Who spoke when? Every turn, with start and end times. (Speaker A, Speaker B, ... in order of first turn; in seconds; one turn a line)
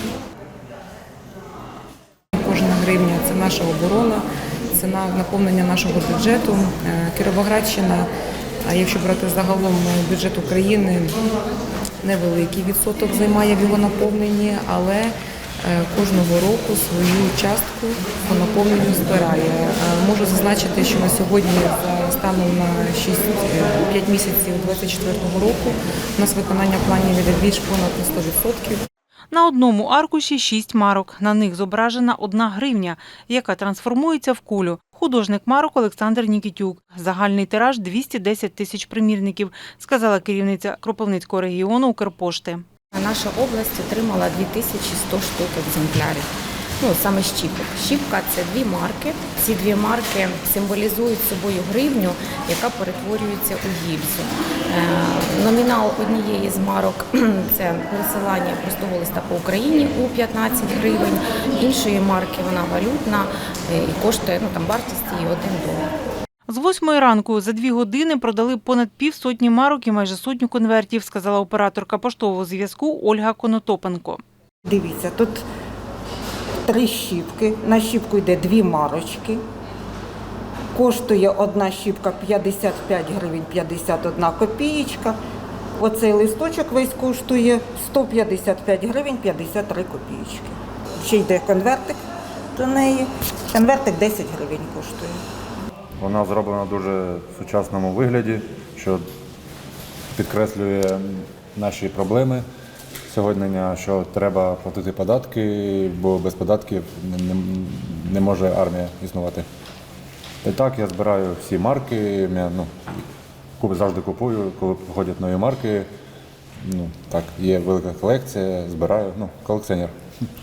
Speaker A: 2.4-8.1
Speaker A: 8.6-11.2
Speaker A: 12.0-28.8
Speaker B: 29.3-42.6
Speaker C: 42.9-65.8
Speaker B: 66.5-74.2
Speaker D: 74.6-75.4
Speaker D: 76.6-79.4
Speaker D: 80.7-85.2
Speaker D: 85.8-92.0
Speaker D: 92.5-95.2
Speaker E: 96.0-99.0
Speaker E: 100.1-102.4
Speaker E: 103.1-109.5
Speaker E: 110.4-113.0
Speaker E: 113.6-115.9
Speaker E: 116.6-119.9